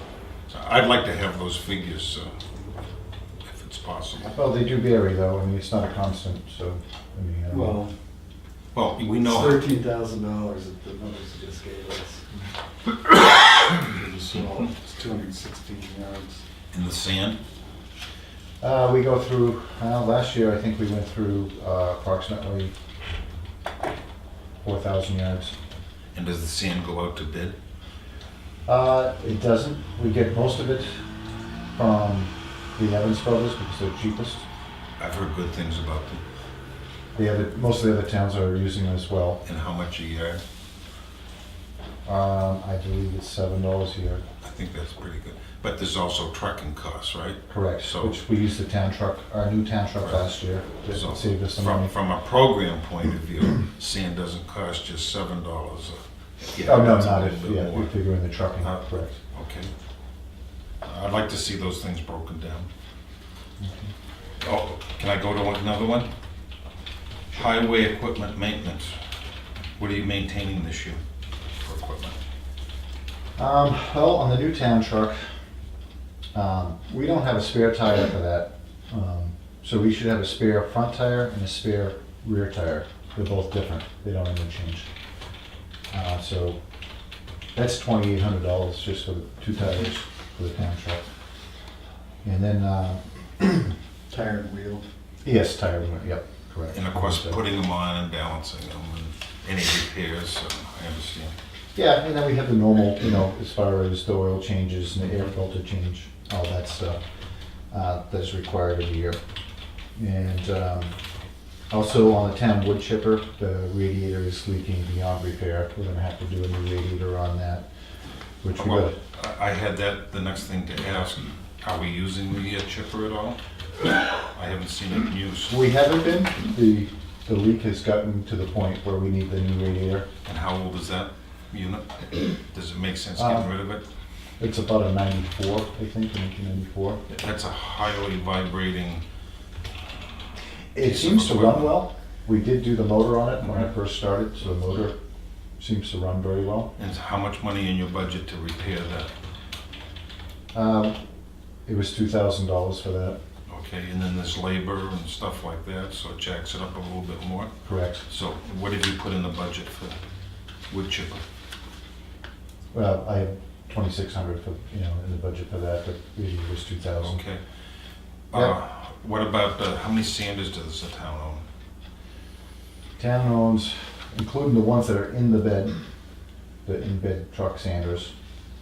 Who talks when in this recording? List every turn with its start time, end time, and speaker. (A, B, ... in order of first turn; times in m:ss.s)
0:00.5-0:02.3 A
0:03.4-0:04.3 A
0:04.3-0:07.8 B
0:07.5-0:07.9 C
0:08.7-0:09.6 A
0:09.2-0:12.3 C
0:13.1-0:16.4 C
0:16.7-0:17.4 A
0:18.6-0:22.7 B
0:24.6-0:25.6 B
0:26.1-0:27.6 A
0:28.7-0:31.0 B
0:31.7-0:34.4 B
0:35.0-0:36.2 A
0:37.2-0:39.4 B
0:39.4-0:40.4 A
0:42.0-0:44.2 B
0:44.4-0:48.2 A
0:47.5-0:51.9 B
0:50.0-0:50.3 A
0:50.9-0:57.9 A
0:56.6-0:59.2 B
0:58.6-0:59.7 A
1:00.8-1:02.7 A
1:03.6-1:03.9 B
1:04.4-1:06.1 A
1:07.3-1:09.0 A
1:09.8-1:11.0 A
1:11.6-1:12.2 A
1:13.4-1:15.3 B
1:16.3-1:24.9 B
1:25.9-1:26.6 B
1:27.5-1:31.1 B
1:32.2-1:33.7 B
1:34.1-1:34.9 C
1:35.2-1:37.4 B
1:36.7-1:41.4 A
1:41.8-1:47.0 B
1:47.7-1:49.2 B
1:50.0-1:50.9 B
1:51.7-1:57.6 B
1:58.4-1:59.0 B
1:58.6-2:03.4 A
2:04.2-2:05.6 A
2:05.5-2:10.1 B
2:10.2-2:13.9 A
2:13.2-2:13.5 B
2:14.4-2:17.0 B
2:17.1-2:19.0 A
2:20.8-2:25.0 B
2:20.8-2:21.8 A
2:25.6-2:26.7 B
2:26.8-2:29.1 A
2:30.5-2:31.0 B
2:31.7-2:33.2 B
2:33.5-2:37.5 A
2:37.6-2:38.0 B
2:38.1-2:40.0 A
2:40.7-2:41.2 A
2:42.7-2:47.2 B
2:47.0-2:47.4 A
2:48.3-2:51.4 A
2:53.0-2:55.8 B
2:56.6-2:58.1 B